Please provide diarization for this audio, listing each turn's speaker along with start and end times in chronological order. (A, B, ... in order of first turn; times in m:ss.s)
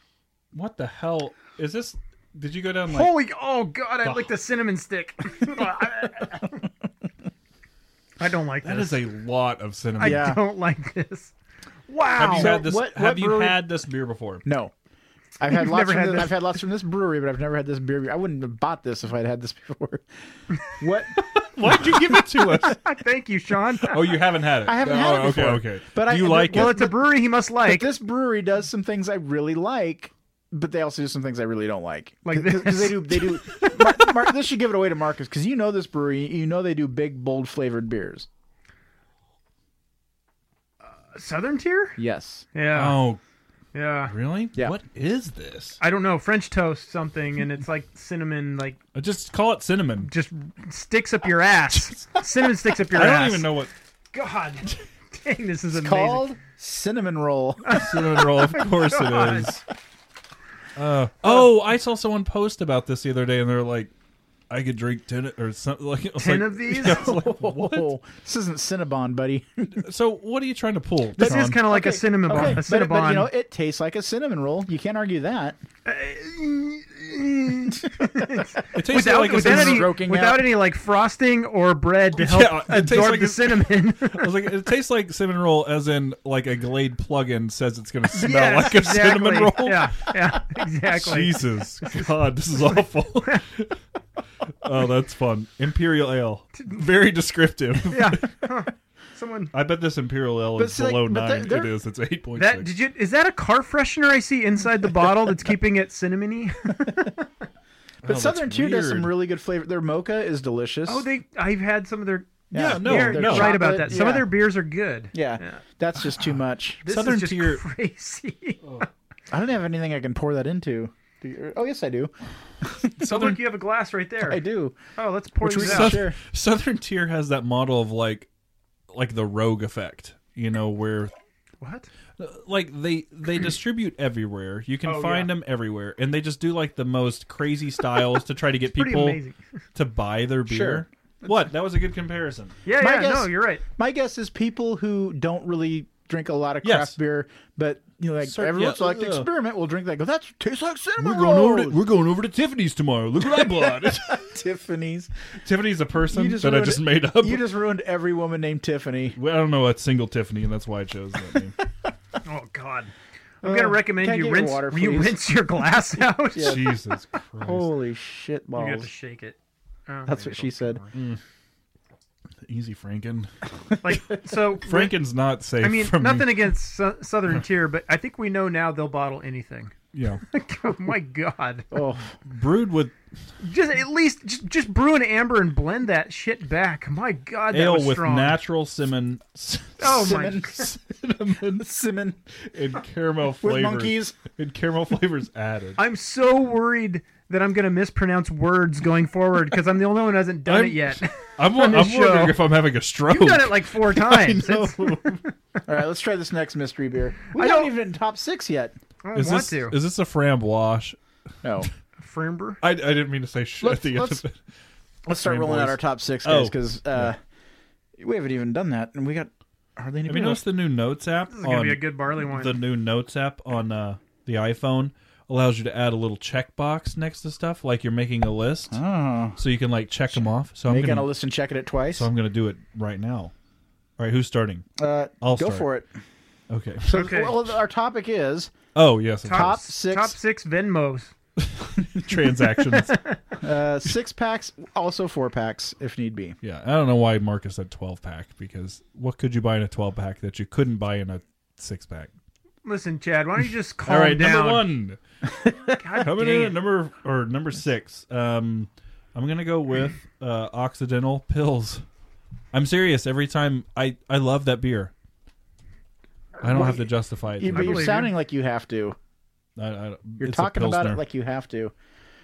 0:00.5-0:03.1 A
0:02.9-0:06.5 B
0:04.0-0:04.3 A
0:08.2-0:09.1 B
0:08.6-0:10.4 A
0:10.0-0:11.3 B
0:10.0-0:10.4 C
0:11.9-0:12.6 B
0:12.2-0:14.4 A
0:12.2-0:13.6 C
0:14.4-0:14.7 C
0:15.4-0:20.0 C
0:15.5-0:16.5 B
0:20.6-0:21.3 C
0:21.2-0:22.8 A
0:22.2-0:24.2 B
0:23.8-0:26.8 A
0:24.6-0:27.1 C
0:26.3-0:27.9 B
0:27.6-0:38.3 C
0:32.2-0:34.0 B
0:40.8-0:42.0 B
0:42.0-0:42.4 C
0:42.5-0:43.0 B
0:42.7-0:43.2 A
0:43.7-0:44.1 B
0:44.0-0:45.8 A
0:45.8-0:48.8 B
0:48.9-0:50.1 A
0:50.0-0:53.5 B
0:52.9-0:53.7 A
0:54.1-0:56.3 B
0:55.7-0:57.8 C
0:57.6-0:59.6 B
0:57.7-0:59.6 A
1:00.8-1:03.9 A
1:04.5-1:07.9 A
1:06.2-1:07.1 B
1:06.8-1:09.8 C
1:09.8-1:11.6 A
1:11.2-1:13.3 B
1:11.2-1:15.6 C
1:15.8-1:24.4 B
1:18.7-1:20.0 A
1:19.0-1:20.5 C
1:22.1-1:30.1 A
1:28.1-1:33.4 B
1:30.9-1:33.8 A
1:34.6-1:38.2 A
1:37.9-1:39.5 B
1:39.5-1:42.7 A
1:40.6-1:41.7 C
1:42.4-1:47.2 B
1:48.0-1:49.1 A
1:48.0-1:51.1 C
1:50.9-1:55.6 B
1:52.5-1:54.3 C
1:52.5-1:53.8 A
1:55.1-1:56.8 C
1:56.8-1:58.8 B
1:56.8-1:57.6 A
1:59.3-2:03.4 C
2:03.0-2:04.4 B
2:04.2-2:04.8 C
2:04.9-2:06.0 B
2:05.4-2:06.2 C
2:05.6-2:08.3 A
2:08.9-2:11.1 A
2:11.6-2:11.9 B
2:12.2-2:19.2 A
2:14.8-2:15.3 B
2:18.7-2:19.4 B
2:19.7-2:22.6 A
2:20.5-2:21.4 C
2:22.6-2:23.6 B
2:22.8-2:31.8 C
2:26.6-2:27.0 A
2:28.2-2:29.3 A
2:31.0-2:34.3 A
2:33.3-2:35.1 C
2:35.4-2:37.5 A
2:36.1-2:39.2 C
2:39.1-2:41.5 A
2:42.2-2:42.9 B
2:43.4-2:45.2 C
2:43.4-2:46.7 B
2:46.3-2:46.7 C
2:46.4-2:47.7 A
2:47.4-2:48.9 C
2:48.5-2:51.0 B
2:50.1-2:50.8 C
2:50.9-2:51.2 A
2:52.4-2:53.3 A
2:53.8-2:55.0 B
2:54.6-2:56.5 A
2:55.6-3:01.7 B
2:59.9-3:00.2 A
3:01.7-3:02.2 C
3:02.2-3:02.9 A
3:03.4-3:08.4 B
3:07.5-3:11.6 A
3:09.8-3:10.7 B
3:09.8-3:10.7 C
3:11.4-3:12.2 C
3:12.4-3:15.8 A
3:13.4-3:14.2 C
3:15.8-3:22.4 B
3:20.4-3:25.2 A
3:23.0-3:25.6 B
3:25.7-3:28.8 C
3:27.3-3:27.7 B
3:29.0-3:29.8 B
3:29.1-3:31.0 A
3:31.4-3:31.7 C
3:32.0-3:32.6 B
3:32.6-3:34.4 A
3:33.6-3:34.2 C
3:35.0-3:37.2 C
3:35.2-3:37.1 A
3:38.0-3:40.4 C
3:40.0-3:48.8 A
3:41.3-3:42.6 B
3:48.7-3:49.4 C
3:49.4-3:51.1 A
3:50.6-3:52.1 C
3:51.9-3:53.3 A
3:54.0-3:54.6 A
3:54.8-3:55.9 C
3:55.2-3:55.7 A
3:56.5-3:57.1 A
3:56.8-3:58.5 C
3:56.9-3:57.3 B
3:58.7-3:59.6 A
3:59.2-4:01.1 B
3:59.3-4:00.2 C
4:01.4-4:03.0 A
4:02.7-4:03.2 B
4:03.4-4:06.4 C
4:06.4-4:12.1 A
4:12.6-4:14.7 B
4:13.8-4:15.0 A
4:15.8-4:16.6 B
4:16.0-4:21.8 A
4:22.5-4:24.9 A
4:26.4-4:26.9 C
4:26.4-4:28.0 A
4:27.4-4:29.0 C
4:27.5-4:28.1 B
4:29.6-4:31.0 A
4:30.2-4:31.7 C